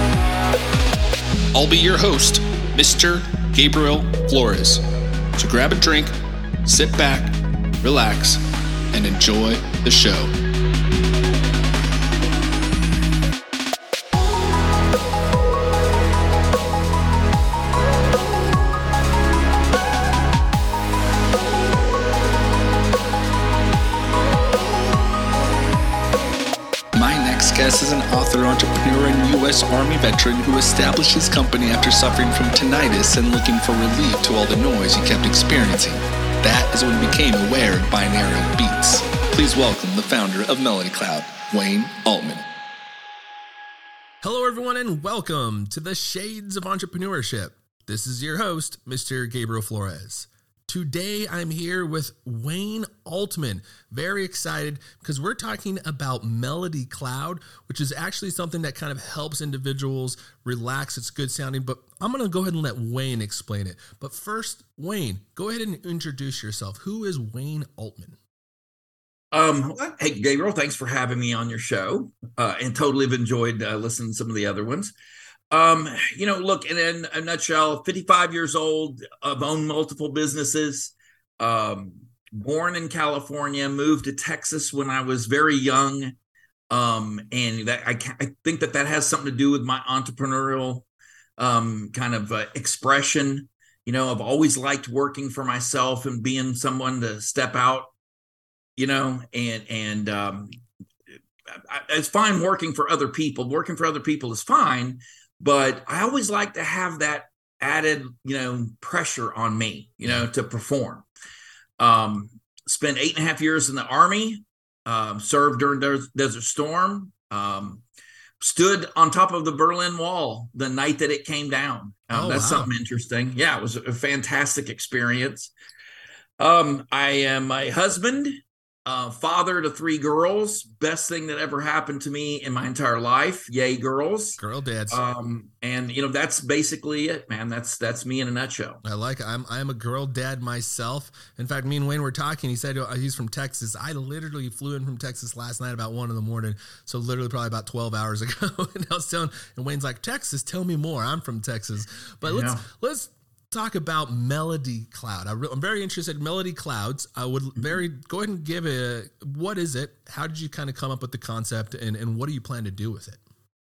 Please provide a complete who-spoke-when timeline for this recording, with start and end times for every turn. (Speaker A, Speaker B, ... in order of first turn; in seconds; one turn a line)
Speaker A: 1.5-4.8
Speaker A: 5.4-10.3
Speaker A: 26.9-42.4
Speaker B: 44.2-68.2
Speaker C: 69.3-74.9
Speaker C: 75.5-86.2
Speaker C: 86.7-90.8
Speaker C: 91.4-97.9
Speaker C: 98.8-100.6
Speaker C: 101.5-111.1
Speaker C: 111.8-117.8
Speaker C: 118.4-125.5
Speaker B: 122.1-122.7
Speaker C: 126.4-138.8
Speaker B: 134.4-135.0
Speaker B: 138.8-163.2
Speaker C: 152.2-152.6